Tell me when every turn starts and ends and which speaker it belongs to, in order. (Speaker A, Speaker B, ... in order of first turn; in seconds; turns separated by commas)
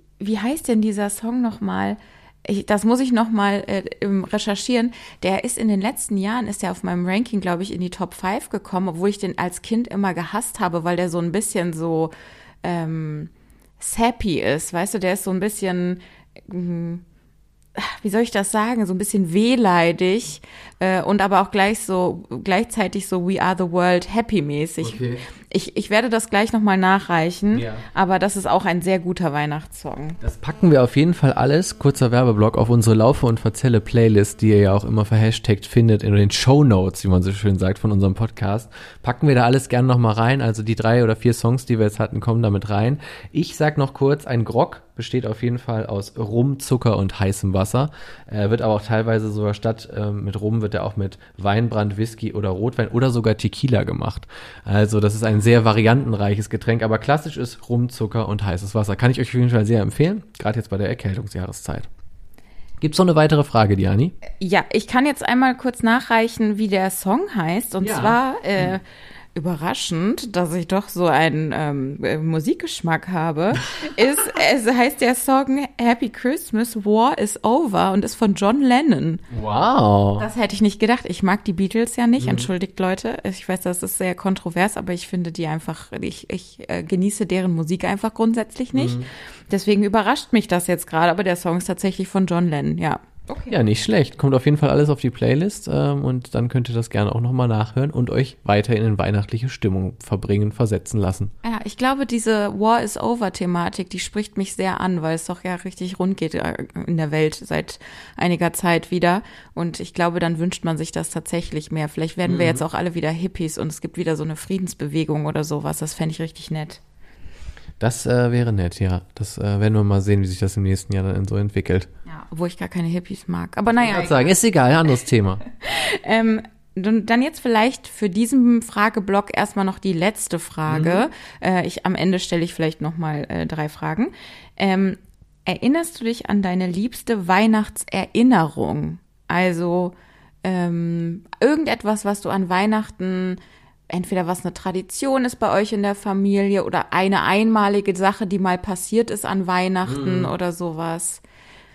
Speaker A: 0.2-12.1, Speaker A: 12.6-17.0, Speaker A: 17.8-30.2, Speaker B: 24.8-25.2, Speaker B: 27.5-27.9, Speaker B: 30.2-61.9, Speaker B: 62.8-64.2, Speaker A: 64.3-68.8, Speaker B: 67.8-68.7, Speaker A: 69.3-79.2, Speaker B: 79.3-80.3, Speaker A: 80.2-89.0, Speaker B: 82.2-82.5, Speaker B: 88.7-89.1, Speaker A: 89.5-93.6, Speaker B: 93.5-101.3, Speaker A: 101.4-116.8, Speaker B: 112.2-112.7, Speaker B: 117.8-121.9, Speaker A: 122.1-124.3, Speaker B: 123.8-125.4, Speaker A: 125.6-143.4, Speaker B: 130.7-131.1, Speaker A: 143.9-151.2, Speaker B: 149.9-150.3